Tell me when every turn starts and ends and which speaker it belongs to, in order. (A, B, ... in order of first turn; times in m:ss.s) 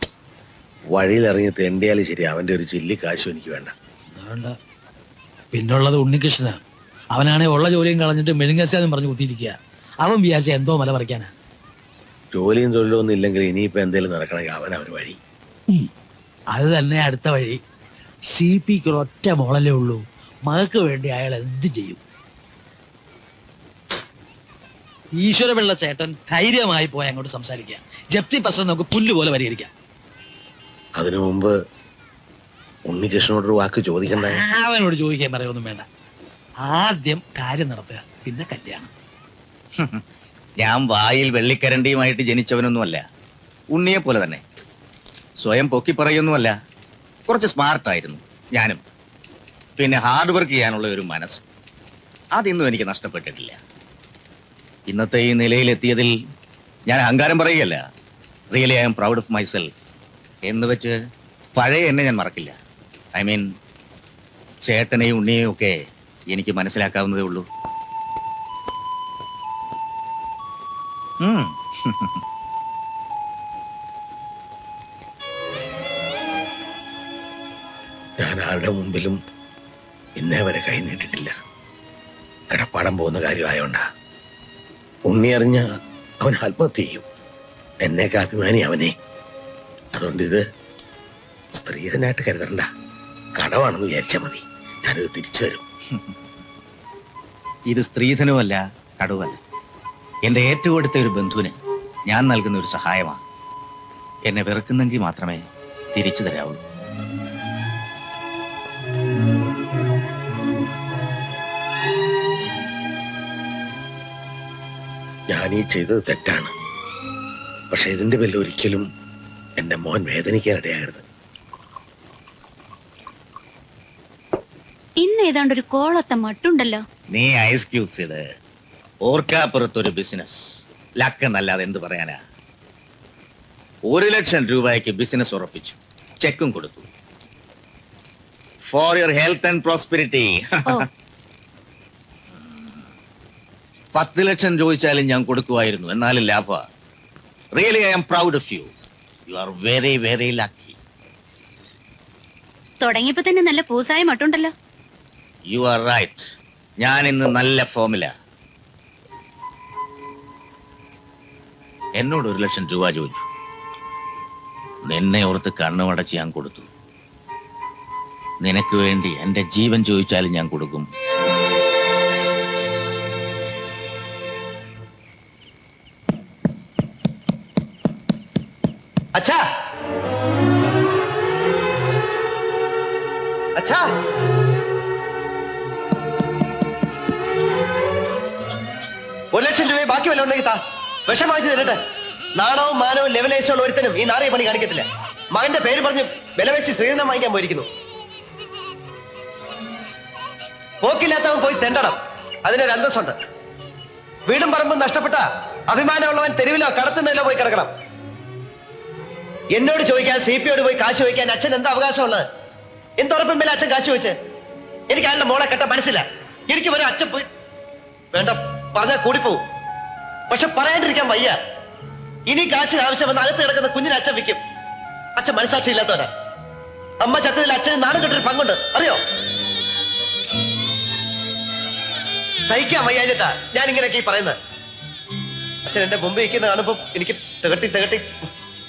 0:00.9-0:03.7 A
0:04.2-0:04.5 B
0:05.5-0:06.6 B
0:07.1-0:11.3 B
0:12.3-0:15.2 A
0:16.6-0:17.6 B
0:18.3-0:22.0 B
0:25.2-0:29.7 B
0:31.0-0:31.5 A
0:32.9-0:34.4 A
0:34.1-0:35.8 B
0:36.6-0:38.9 B
0:39.8-0:40.0 C
0:40.6-0:43.0 C
0:43.7-0:44.4 C
0:45.4-0:46.6 C
0:47.3-0:48.8 C
0:49.8-0:51.4 C
0:52.3-0:53.6 C
0:54.9-0:56.1 C
0:56.9-0:57.8 C
0:58.5-0:59.7 C
1:00.5-1:00.9 C
1:01.6-1:02.6 C
1:03.1-1:03.5 C
1:04.6-1:05.8 C
1:06.3-1:07.5 C
1:11.2-1:12.2 C
1:18.2-1:19.2 A
1:20.2-1:21.4 A
1:22.5-1:23.8 A
1:25.1-1:25.7 A
1:26.2-1:27.0 A
1:27.8-1:28.9 A
1:29.9-1:30.4 A
1:31.6-1:32.7 A
1:33.4-1:35.6 A
1:37.7-1:39.4 C
1:40.2-1:41.5 C
1:42.1-1:43.2 C
1:44.2-1:46.6 C
1:55.3-1:56.5 A
1:57.7-1:58.8 A
1:59.6-2:01.0 A
2:05.0-2:06.8 D
2:07.1-2:08.2 C
2:09.0-2:10.4 C
2:11.0-2:12.2 C
2:13.9-2:16.9 C
2:18.7-2:20.8 C
2:23.9-2:26.6 C
2:27.5-2:28.7 C
2:29.3-2:30.8 C
2:32.8-2:34.5 D
2:35.5-2:36.3 C
2:36.8-2:38.1 C
2:42.0-2:43.3 C
2:44.8-2:46.7 C
2:48.4-2:50.9 C
3:09.3-3:11.8 E
3:12.4-3:17.7 E
3:20.8-3:23.1 E
3:24.3-3:27.7 E
3:29.5-3:32.2 E
3:33.0-3:34.1 E
3:34.9-3:37.3 E
3:38.1-3:39.4 E
3:40.3-3:41.4 E
3:42.3-3:44.4 E
3:45.2-3:46.1 E
3:47.0-3:49.0 E
3:52.5-3:54.4 E
3:55.7-3:58.1 E